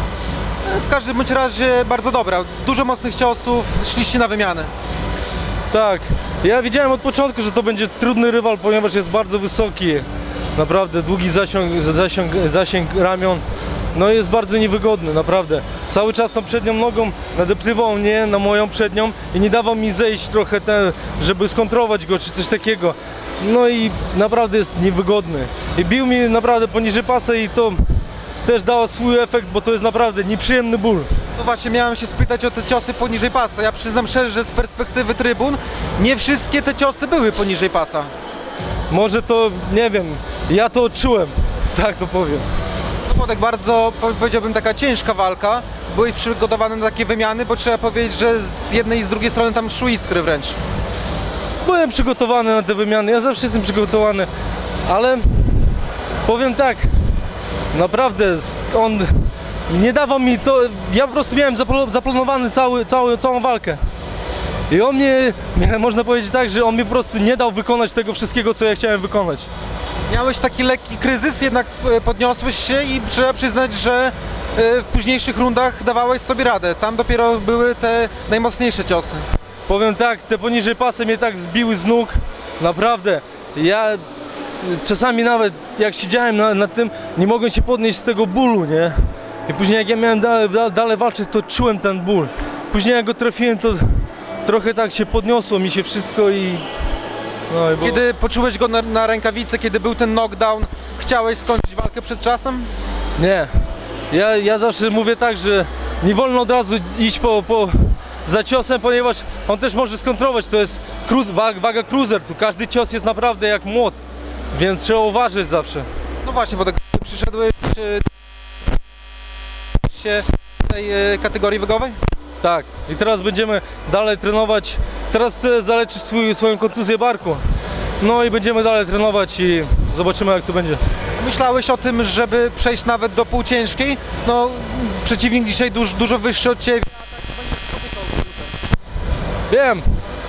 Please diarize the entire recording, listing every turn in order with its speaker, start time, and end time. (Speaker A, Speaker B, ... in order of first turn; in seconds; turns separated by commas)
Speaker A: 0.6-4.7, Speaker B: 5.7-13.4, Speaker B: 13.9-31.1, Speaker A: 31.4-38.1, Speaker B: 38.9-42.5, Speaker A: 43.0-50.6, Speaker B: 51.6-54.3, Speaker B: 54.8-57.2, Speaker B: 57.7-63.8, Speaker B: 64.7-69.5, Speaker A: 70.1-79.2, Speaker B: 79.7-84.0, Speaker B: 84.6-96.7, Speaker B: 97.5-98.0, Speaker A: 97.8-102.7, Speaker B: 103.2-114.0, Speaker B: 114.5-115.9, Speaker A: 116.2-118.1, Speaker A: 119.8-122.0, Speaker B: 122.4-127.4, Speaker B: 128.0-130.8, Speaker A: 131.2-138.6, Speaker B: 139.5-139.8